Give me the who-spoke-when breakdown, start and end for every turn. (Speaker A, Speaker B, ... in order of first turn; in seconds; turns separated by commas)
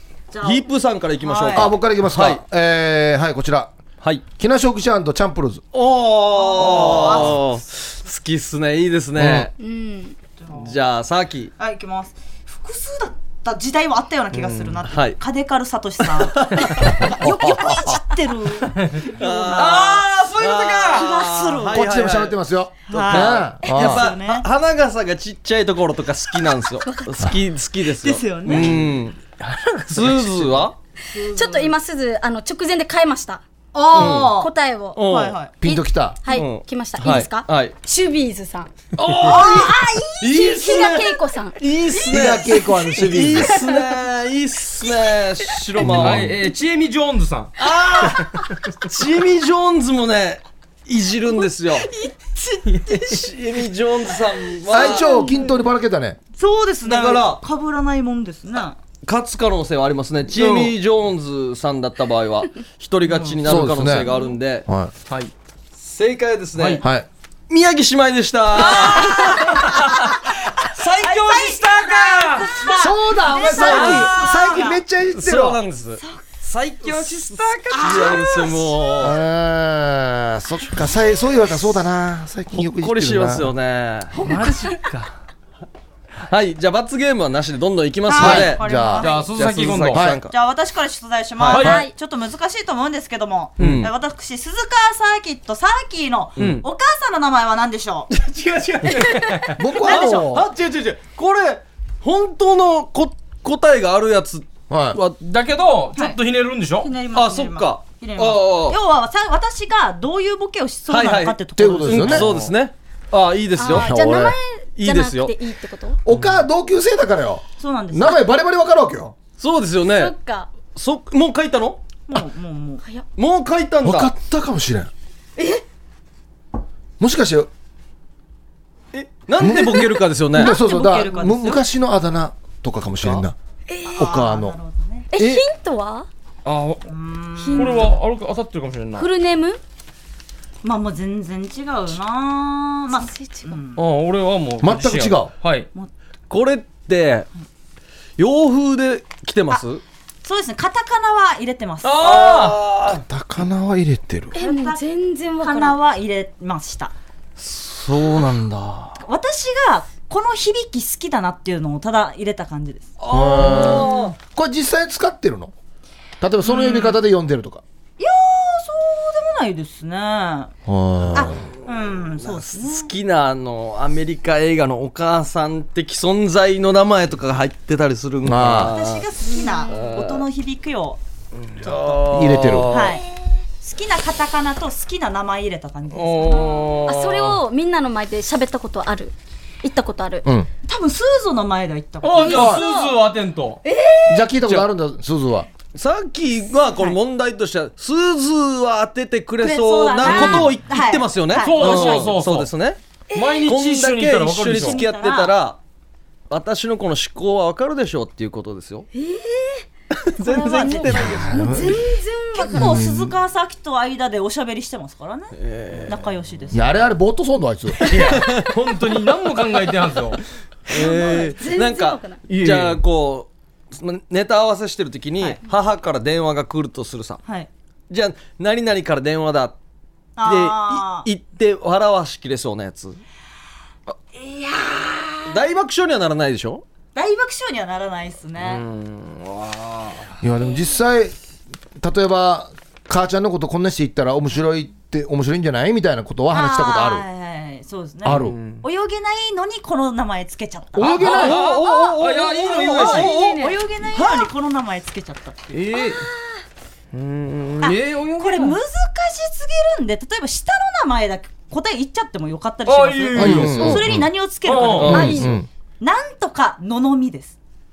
Speaker A: 0.3-0.6, Speaker B: 0.4-2.4, Speaker A: 1.2-1.7, Speaker C: 1.5-3.7, Speaker C: 4.4-5.6, Speaker B: 5.7-9.5, Speaker A: 6.3-7.4, Speaker C: 9.2-9.5, Speaker D: 9.6-10.2, Speaker A: 10.4-10.8, Speaker B: 10.5-11.5, Speaker A: 11.6-20.0, Speaker E: 14.3-14.7, Speaker B: 14.8-15.2, Speaker B: 16.2-17.7, Speaker C: 17.2-18.0, Speaker B: 19.0-29.2, Speaker E: 19.5-21.1, Speaker A: 20.9-21.9, Speaker C: 21.7-24.1, Speaker A: 22.9-24.4, Speaker D: 26.9-27.1, Speaker A: 28.0-28.9, Speaker E: 29.4-30.6, Speaker B: 29.9-30.8, Speaker A: 31.1-31.7, Speaker D: 31.3-35.0, Speaker A: 33.7-35.6, Speaker B: 33.9-34.3, Speaker B: 34.9-35.4, Speaker C: 35.6-36.2, Speaker D: 35.6-38.7, Speaker B: 36.3-37.7, Speaker E: 39.0-39.5, Speaker B: 39.0-46.3, Speaker A: 39.3-40.1, Speaker D: 39.3-41.6, Speaker C: 42.1-43.5, Speaker C: 45.8-46.3, Speaker E: 45.8-47.5, Speaker B: 47.6-51.9, Speaker A: 52.3-53.2, Speaker E: 52.7-53.0, Speaker B: 53.0-55.1, Speaker C: 54.7-56.2, Speaker A: 54.7-55.5, Speaker D: 55.1-55.4, Speaker A: 56.4-58.8, Speaker B: 56.8-57.4, Speaker B: 59.0-64.7, Speaker E: 60.3-60.7, Speaker C: 63.4-64.1, Speaker C: 64.7-64.9, Speaker B: 65.8-66.8, Speaker E: 66.5-66.8, Speaker C: 66.8-67.1, Speaker B: 67.5-69.8, Speaker A: 68.7-74.8, Speaker E: 69.6-69.9, Speaker B: 70.6-71.4, Speaker E: 71.0-72.5, Speaker C: 72.7-75.6, Speaker B: 73.5-74.5, Speaker E: 73.6-74.1, Speaker B: 75.1-79.2, Speaker E: 76.8-78.5, Speaker A: 77.7-79.0, Speaker C: 79.0-83.5, Speaker B: 82.5-84.3, Speaker E: 84.2-85.1, Speaker B: 86.2-88.6, Speaker A: 88.1-89.3, Speaker C: 88.2-89.1, Speaker E: 89.0-90.1, Speaker B: 89.2-90.3, Speaker C: 89.9-90.2, Speaker A: 90.3-98.1, Speaker E: 91.5-91.8, Speaker D: 91.5-91.9, Speaker E: 93.6-93.9, Speaker B: 93.6-93.9, Speaker B: 96.4-96.6, Speaker E: 96.4-96.6, Speaker E: 98.1-99.6, Speaker C: 99.6-100.5, Speaker A: 99.8-100.3, Speaker B: 99.8-105.1, Speaker C: 104.7-105.0, Speaker E: 105.1-106.9, Speaker A: 106.7-112.3, Speaker B: 107.1-108.8, Speaker B: 110.9-113.9, Speaker C: 111.5-112.3, Speaker E: 112.1-112.5, Speaker D: 113.6-116.0, Speaker C: 113.7-114.4, Speaker B: 114.8-115.3, Speaker C: 116.0-119.1, Speaker B: 116.1-116.4, Speaker A: 117.6-118.2, Speaker B: 119.4-120.1, Speaker D: 119.9-120.5, Speaker B: 120.7-121.8, Speaker A: 122.1-122.8, Speaker B: 123.2-124.1, Speaker C: 123.8-124.9, Speaker D: 125.4-125.6, Speaker C: 127.0-127.5, Speaker B: 128.9-130.5, Speaker C: 129.4-133.3, Speaker A: 130.4-131.6, Speaker D: 133.7-134.1, Speaker A: 133.8-135.1, Speaker C: 133.9-134.6, Speaker D: 135.1-136.1, Speaker E: 136.4-136.9, Speaker A: 136.8-138.0, Speaker D: 137.4-137.9, Speaker E: 137.5-139.1, Speaker D: 139.0-139.6, Speaker A: 140.6-143.8, Speaker D: 142.9-143.5, Speaker E: 143.8-145.7, Speaker C: 144.6-145.3, Speaker B: 146.3-147.3, Speaker B: 148.2-149.8, Speaker A: 150.2-152.5, Speaker E: 151.8-152.6, Speaker B: 152.0-153.0, Speaker C: 152.9-154.3, Speaker D: 154.3-155.8, Speaker A: 154.3-154.8, Speaker A: 155.4-156.9, Speaker B: 157.4-159.0, Speaker A: 159.0-162.9, Speaker B: 163.0-164.1, Speaker C: 163.1-165.5, Speaker C: 166.2-167.6, Speaker A: 166.4-167.0, Speaker A: 168.0-170.5, Speaker C: 170.7-171.4, Speaker A: 171.1-172.9, Speaker B: 172.2-179.1, Speaker C: 178.2-178.8, Speaker A: 178.5-181.0, Speaker D: 179.6-179.8, Speaker B: 179.7-180.2, Speaker B: 181.6-183.0, Speaker A: 181.6-182.1, Speaker C: 182.1-182.8, Speaker A: 182.7-183.1, Speaker A: 183.6-186.8, Speaker E: 185.9-187.4, Speaker D: 186.8-190.3, Speaker A: 190.7-192.6, Speaker E: 192.0-193.6, Speaker D: 192.2-193.0, Speaker C: 192.3-192.6, Speaker D: 193.6-194.3, Speaker C: 194.1-195.5, Speaker B: 195.7-202.8, Speaker A: 199.4-202.1, Speaker E: 200.0-200.5, Speaker E: 201.4-202.5, Speaker D: 203.1-203.5, Speaker E: 203.1-204.8, Speaker B: 203.4-205.6, Speaker A: 204.5-205.3, Speaker B: 206.3-208.9, Speaker D: 208.9-209.6, Speaker B: 210.1-211.3, Speaker D: 210.2-212.8, Speaker A: 210.3-216.9, Speaker C: 210.9-211.8, Speaker C: 212.5-213.1, Speaker B: 215.3-216.0, Speaker C: 216.5-217.8, Speaker E: 217.8-220.2, Speaker B: 218.2-218.5, Speaker B: 220.7-227.2, Speaker D: 220.7-222.2, Speaker A: 220.8-221.2, Speaker E: 222.3-222.8, Speaker B: 227.9-229.6, Speaker A: 230.2-231.1, Speaker B: 230.2-233.0, Speaker A: 234.1-235.4, Speaker B: 235.2-236.6, Speaker A: 236.9-238.6, Speaker E: 238.4-240.0, Speaker C: 240.2-241.2, Speaker C: 241.8-247.1, Speaker A: 246.3-251.3, Speaker C: 248.0-248.4, Speaker E: 248.1-248.6, Speaker C: 250.7-251.4, Speaker E: 250.8-253.1, Speaker B: 251.0-253.3, Speaker D: 251.4-253.6, Speaker A: 252.7-255.6, Speaker B: 253.9-254.3, Speaker E: 255.5-256.1, Speaker D: 255.8-256.4, Speaker E: 256.9-258.6, Speaker A: 257.6-265.2, Speaker E: 262.6-265.3, Speaker C: 263.1-264.1, Speaker D: 264.8-265.4, Speaker C: 264.9-265.5, Speaker A: 265.8-267.3